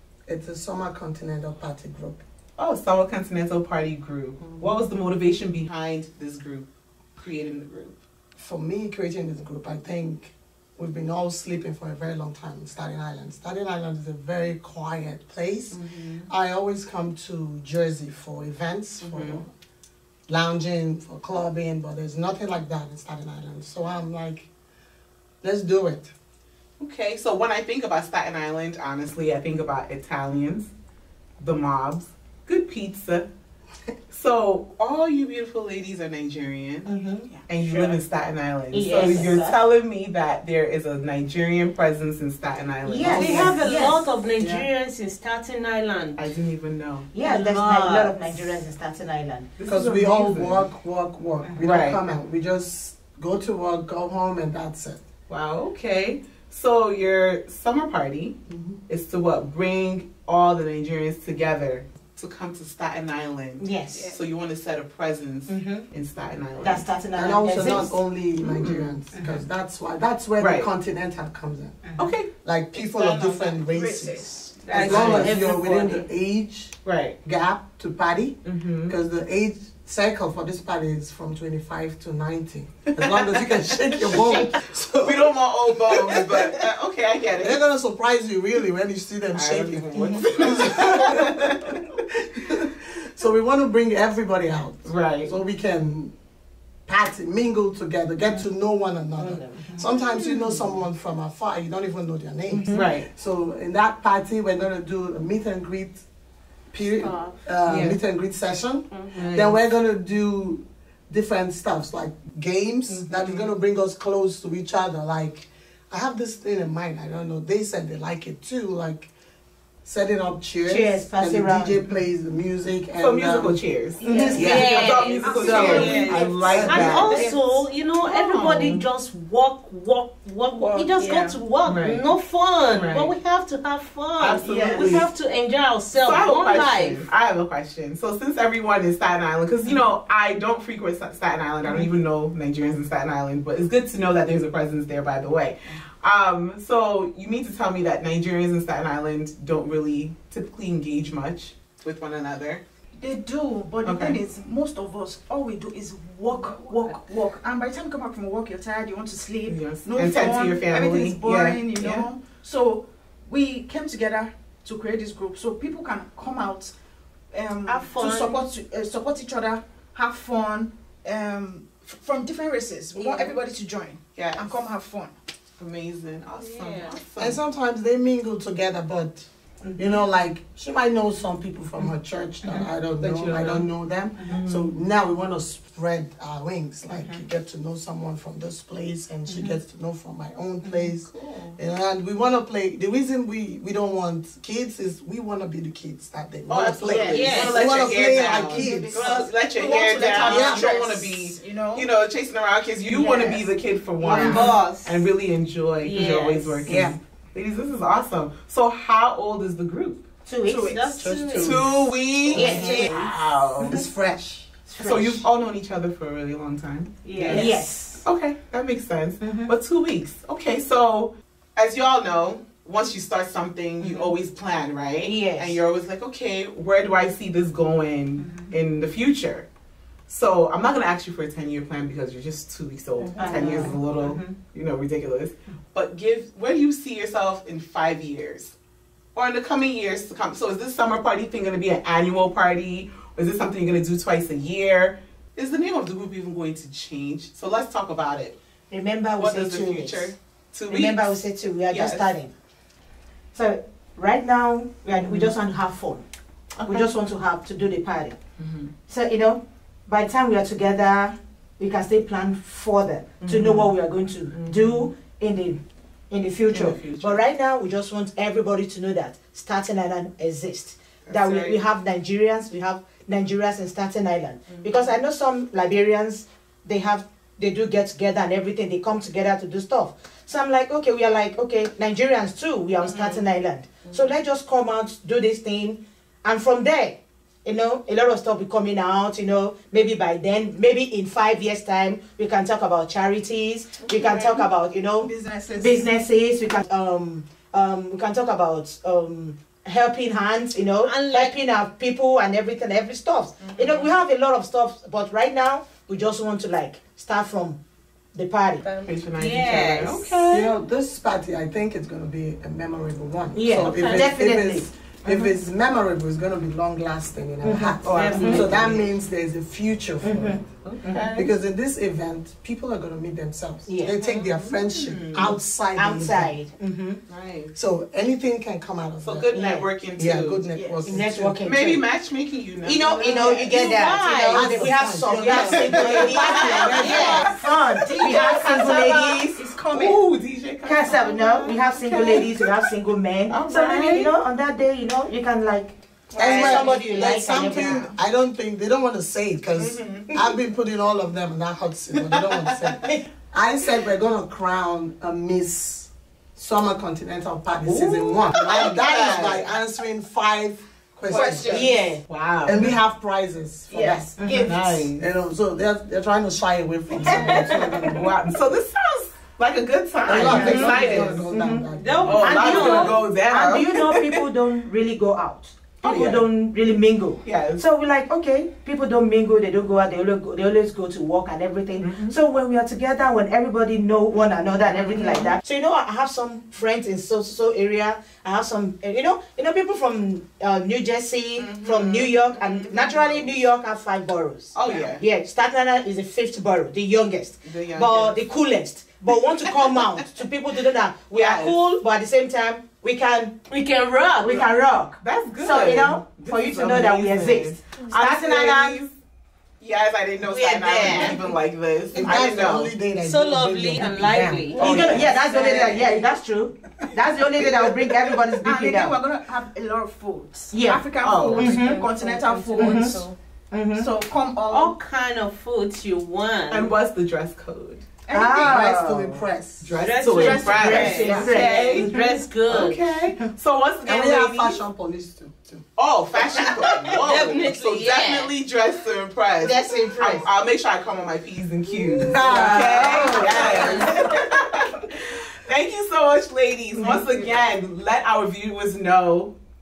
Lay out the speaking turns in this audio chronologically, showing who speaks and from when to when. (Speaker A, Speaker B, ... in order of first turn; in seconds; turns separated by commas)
Speaker A: 0.3-2.2, Speaker B: 2.6-8.0, Speaker A: 4.5-4.8, Speaker A: 8.4-19.5, Speaker B: 15.7-16.3, Speaker B: 19.0-19.4, Speaker A: 20.3-24.5, Speaker A: 25.4-26.1, Speaker B: 26.8-30.7, Speaker B: 31.4-33.3, Speaker B: 34.1-36.9, Speaker C: 36.9-37.3, Speaker D: 37.3-38.0, Speaker B: 37.5-43.5, Speaker C: 38.7-39.6, Speaker E: 38.8-39.4, Speaker C: 42.9-44.1, Speaker A: 43.0-43.5, Speaker E: 43.1-46.3, Speaker B: 46.2-47.1, Speaker C: 47.1-49.5, Speaker E: 47.2-48.6, Speaker B: 49.6-50.7, Speaker A: 49.6-55.0, Speaker B: 51.6-52.0, Speaker B: 55.3-58.4, Speaker A: 58.5-58.8, Speaker B: 58.9-66.9, Speaker C: 63.6-64.1, Speaker D: 63.9-64.2, Speaker C: 65.5-65.9, Speaker C: 66.6-68.0, Speaker A: 67.1-71.8, Speaker B: 68.4-69.0, Speaker C: 69.1-69.4, Speaker B: 70.4-70.7, Speaker C: 71.8-72.1, Speaker B: 72.0-72.3, Speaker A: 72.4-86.7, Speaker D: 72.8-74.8, Speaker E: 74.7-76.1, Speaker B: 74.8-75.4, Speaker B: 76.8-77.2, Speaker B: 78.4-79.0, Speaker B: 83.0-84.1, Speaker B: 85.0-87.6, Speaker A: 87.4-96.1, Speaker B: 89.3-91.8, Speaker C: 89.9-90.3, Speaker B: 94.8-95.3, Speaker A: 96.9-106.0, Speaker E: 99.2-99.6, Speaker B: 100.1-100.7, Speaker C: 102.5-102.9, Speaker B: 102.7-103.1, Speaker A: 106.7-119.1, Speaker E: 107.0-107.4, Speaker B: 107.7-108.0, Speaker E: 108.9-109.3, Speaker B: 109.2-109.6, Speaker B: 113.1-113.5, Speaker A: 119.8-124.8, Speaker C: 120.7-121.8, Speaker B: 123.0-127.3, Speaker C: 124.0-124.6, Speaker D: 124.0-127.6, Speaker E: 124.3-137.1, Speaker C: 125.6-126.1, Speaker A: 126.5-126.9, Speaker B: 128.0-128.8, Speaker D: 130.6-131.4, Speaker B: 131.6-132.1, Speaker B: 132.7-133.2, Speaker B: 134.2-135.1, Speaker D: 134.5-135.0, Speaker B: 135.9-152.6, Speaker D: 153.0-166.7, Speaker B: 153.8-154.2, Speaker E: 156.3-157.0, Speaker B: 159.4-162.1, Speaker D: 167.3-175.2, Speaker E: 167.7-168.5, Speaker E: 172.9-173.4, Speaker B: 174.2-174.7, Speaker B: 175.6-177.4, Speaker E: 176.4-177.0, Speaker A: 177.2-199.0, Speaker B: 182.4-183.7, Speaker B: 184.3-184.8, Speaker B: 187.0-187.2, Speaker C: 189.3-189.6, Speaker B: 190.6-191.6, Speaker B: 196.5-210.0, Speaker C: 196.8-197.5, Speaker E: 197.1-197.6, Speaker D: 197.4-201.9, Speaker A: 200.2-200.7, Speaker D: 202.9-203.5, Speaker D: 204.0-204.5, Speaker C: 204.1-204.5, Speaker E: 204.1-205.1, Speaker E: 205.8-206.8, Speaker A: 206.7-207.0, Speaker C: 210.3-210.9, Speaker D: 210.5-211.0, Speaker E: 210.6-211.6, Speaker A: 211.0-213.1, Speaker B: 211.3-213.7, Speaker C: 212.3-213.1, Speaker E: 212.3-213.1, Speaker A: 213.6-214.6, Speaker B: 214.8-229.5, Speaker E: 217.1-217.6, Speaker C: 217.2-218.1, Speaker C: 219.2-219.5, Speaker C: 225.0-225.6, Speaker B: 230.1-238.6, Speaker C: 233.2-234.3, Speaker D: 233.3-233.8, Speaker B: 239.2-248.4, Speaker C: 248.7-250.1, Speaker B: 249.2-252.1, Speaker C: 250.7-252.3, Speaker C: 253.3-256.0, Speaker B: 254.9-255.3, Speaker B: 256.6-256.9, Speaker C: 256.7-258.2, Speaker B: 258.4-258.7, Speaker C: 258.9-307.6, Speaker B: 263.2-263.7, Speaker B: 264.3-264.9, Speaker B: 266.5-267.2, Speaker B: 271.1-271.6, Speaker B: 274.5-274.9, Speaker B: 282.8-283.2, Speaker E: 293.9-294.4, Speaker D: 295.0-295.9, Speaker E: 300.8-301.4, Speaker B: 303.4-303.9, Speaker C: 308.1-308.6, Speaker E: 308.6-310.2, Speaker B: 308.8-310.5, Speaker A: 310.3-320.5, Speaker C: 313.3-314.7, Speaker E: 313.6-314.0, Speaker B: 315.1-315.4, Speaker C: 317.4-318.5, Speaker B: 317.8-318.9, Speaker E: 318.1-318.4, Speaker C: 320.0-321.2, Speaker B: 320.6-321.3, Speaker A: 321.1-326.4, Speaker C: 323.6-324.0, Speaker E: 324.0-324.3, Speaker B: 324.4-325.4, Speaker C: 325.2-327.0, Speaker B: 327.1-327.5, Speaker A: 327.5-329.3, Speaker B: 329.0-330.5, Speaker C: 329.3-329.7, Speaker A: 329.9-331.4, Speaker D: 330.5-330.8, Speaker C: 330.8-331.9, Speaker B: 331.4-333.3, Speaker C: 332.6-339.4, Speaker D: 332.9-333.5, Speaker E: 333.1-334.7, Speaker A: 334.3-337.4, Speaker B: 335.2-342.7, Speaker D: 335.8-340.0, Speaker E: 336.8-337.3, Speaker C: 340.6-347.9, Speaker B: 343.3-344.1, Speaker D: 346.1-347.9, Speaker A: 346.2-361.7, Speaker B: 346.2-346.5, Speaker B: 349.6-350.2, Speaker B: 352.0-352.7, Speaker B: 357.6-359.5, Speaker D: 361.1-361.8, Speaker C: 361.4-362.0, Speaker B: 362.0-362.8, Speaker A: 362.4-364.1, Speaker D: 363.7-364.9, Speaker C: 364.2-364.5, Speaker B: 364.4-365.1, Speaker A: 365.0-368.1, Speaker B: 367.8-374.2, Speaker A: 370.1-372.2, Speaker D: 370.1-370.9, Speaker C: 370.1-371.2, Speaker E: 371.7-373.0, Speaker C: 372.1-403.4, Speaker B: 375.8-376.2, Speaker B: 377.2-377.6, Speaker B: 381.8-382.2, Speaker B: 384.7-385.4, Speaker B: 391.4-393.4, Speaker B: 394.5-395.0, Speaker B: 397.4-398.2, Speaker B: 401.1-401.6, Speaker E: 403.5-404.4, Speaker C: 404.2-408.8, Speaker B: 405.0-408.9, Speaker B: 409.6-412.8, Speaker E: 410.3-411.3, Speaker C: 410.9-411.2, Speaker A: 411.9-415.0, Speaker E: 412.9-414.8, Speaker B: 414.6-415.8, Speaker C: 414.6-419.0, Speaker D: 414.7-416.0, Speaker D: 418.4-423.1, Speaker C: 420.5-421.8, Speaker B: 421.0-421.5, Speaker E: 421.4-423.1, Speaker C: 422.6-423.0, Speaker C: 423.5-423.9, Speaker D: 423.7-424.8, Speaker E: 424.5-426.7, Speaker B: 426.5-427.9, Speaker D: 428.1-428.7, Speaker C: 428.1-429.1, Speaker A: 428.4-429.7, Speaker B: 429.0-431.9, Speaker E: 429.8-432.8, Speaker D: 430.2-431.7, Speaker C: 430.4-432.2, Speaker B: 432.5-434.6, Speaker A: 433.9-435.6, Speaker B: 435.8-449.4, Speaker E: 436.4-438.4, Speaker C: 439.4-440.3, Speaker A: 442.0-443.9, Speaker E: 442.9-443.9, Speaker C: 442.9-443.8